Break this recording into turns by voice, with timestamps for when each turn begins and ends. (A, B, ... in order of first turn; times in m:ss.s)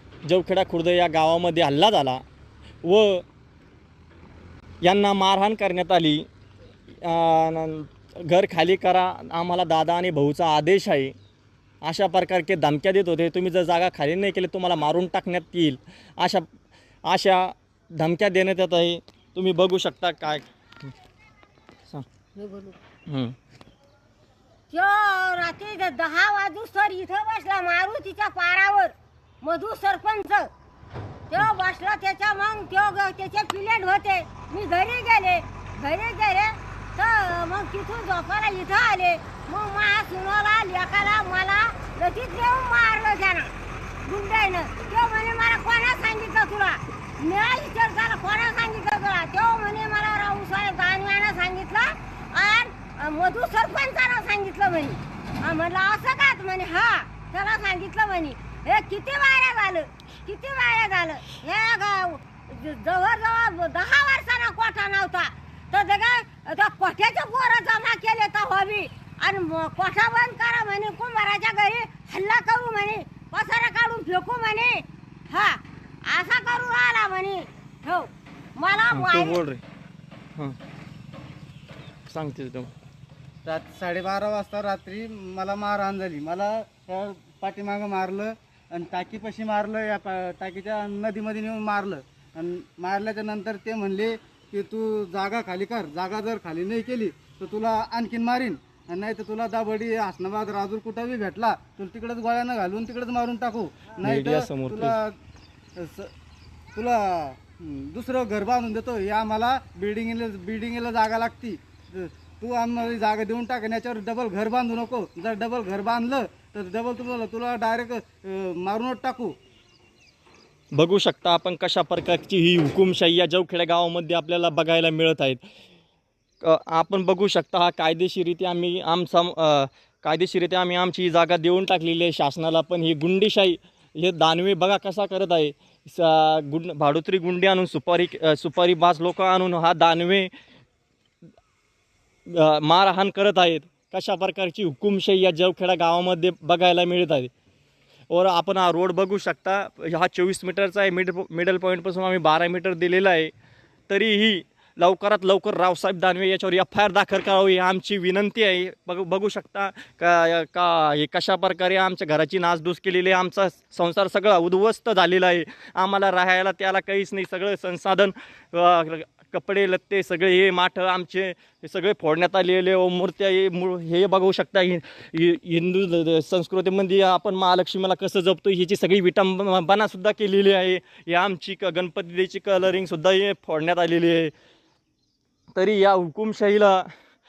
0:00.2-0:02.2 A
0:02.8-0:03.2 A
0:04.8-0:06.3 A
0:06.9-0:11.1 A
0:11.8-0:16.5 A
0:17.1-0:20.5 A
0:22.4-0:22.8 B
0:23.1-0:23.4 A
0:24.7-0:30.5 B
0:31.3-0:43.5 B
0:44.0-1:19.4 B
1:18.9-1:19.6 A
1:22.1-1:22.7 A
1:23.4-1:45.2 C
1:44.0-1:45.0 A
1:45.8-1:46.1 C
1:46.7-1:59.3 C
2:00.7-2:05.4 A
2:06.4-2:20.3 A
2:22.3-2:27.3 A
2:28.1-2:33.3 A
2:33.9-3:04.3 A
3:05.6-3:06.9 A